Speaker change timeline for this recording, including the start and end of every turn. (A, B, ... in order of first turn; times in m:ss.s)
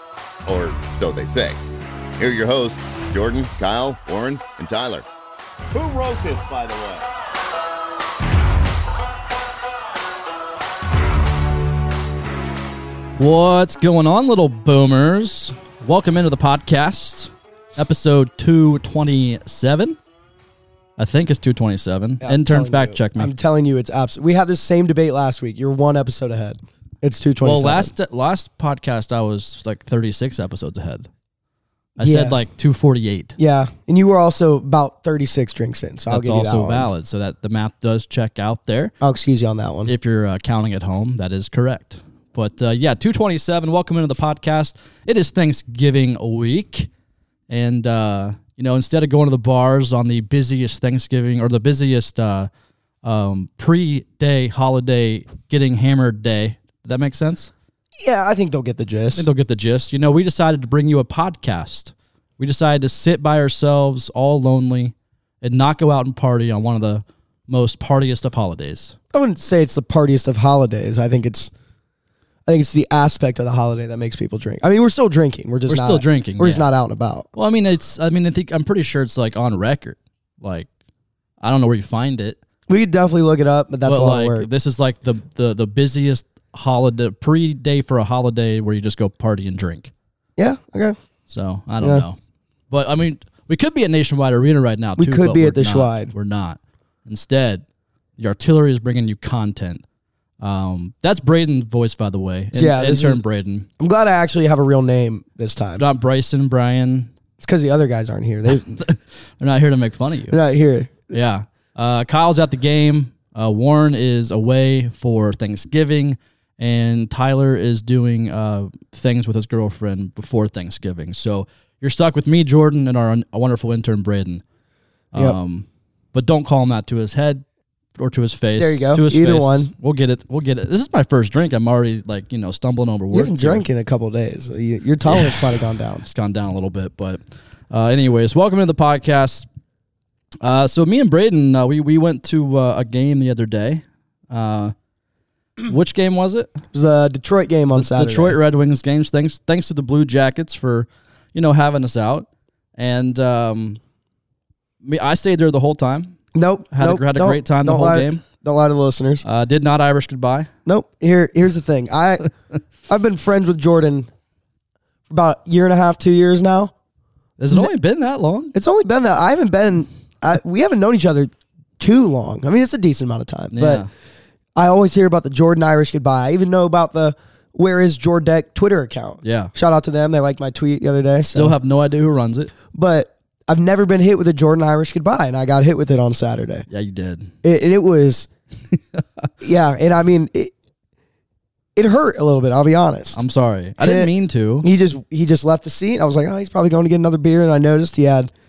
0:00.4-0:01.6 A
0:02.2-0:05.0 A
0:05.7-0:07.0 A
0:13.2-0:20.0 B
0:21.0-0:23.3 B
0:22.2-0:27.9 C
0:27.4-0:31.1 B
0:32.0-0:33.3 B
0:32.0-0:32.4 C
0:33.4-0:36.9 C
0:36.1-0:38.9 B
0:39.0-0:39.9 C
0:39.8-0:46.9 B
0:47.5-0:52.5 B
0:53.0-0:57.5 B
0:58.0-0:59.2 C
0:59.1-1:09.0 B
1:09.1-1:11.5 C
1:12.4-1:17.3 C
1:15.7-1:16.6 B
1:17.3-1:20.7 B
1:21.4-1:22.4 B
1:22.7-1:24.5 C
1:23.8-1:29.9 B
1:30.4-1:31.0 C
1:31.3-1:32.2 B
1:31.8-1:32.0 C
1:32.7-1:37.6 B
1:35.0-1:36.1 C
1:38.2-1:39.8 B
1:40.4-1:43.7 B
1:42.5-1:43.2 C
1:43.8-1:45.8 C
1:45.8-1:47.1 B
1:47.4-1:48.8 C
1:48.5-1:50.4 B
1:50.3-1:51.1 C
1:51.1-2:04.4 B
2:05.1-2:07.4 B
2:08.0-2:13.6 B
2:08.6-2:09.7 C
2:13.1-2:16.0 C
2:15.1-2:15.4 B
2:16.0-2:17.2 B
2:17.7-2:19.5 B
2:20.4-2:24.7 B
2:25.6-2:26.6 B
2:26.7-2:28.4 C
2:27.7-2:33.8 B
2:34.8-2:36.2 B
2:36.3-2:39.2 C
2:36.7-2:38.2 B
2:39.2-2:40.5 B
2:40.6-2:42.3 C
2:42.8-2:44.1 C
2:45.1-2:46.7 C
2:47.4-2:48.5 B
2:48.5-2:53.8 C
2:53.5-2:53.9 B
2:54.6-3:01.6 C
2:59.2-2:59.5 B
3:01.3-3:02.5 B
3:02.7-3:06.7 C
3:06.7-3:07.3 B
3:07.4-3:08.3 C
3:09.4-3:10.5 C
3:11.8-3:13.2 C
3:13.1-3:14.7 B
3:13.8-3:14.1 C
3:14.6-3:18.3 C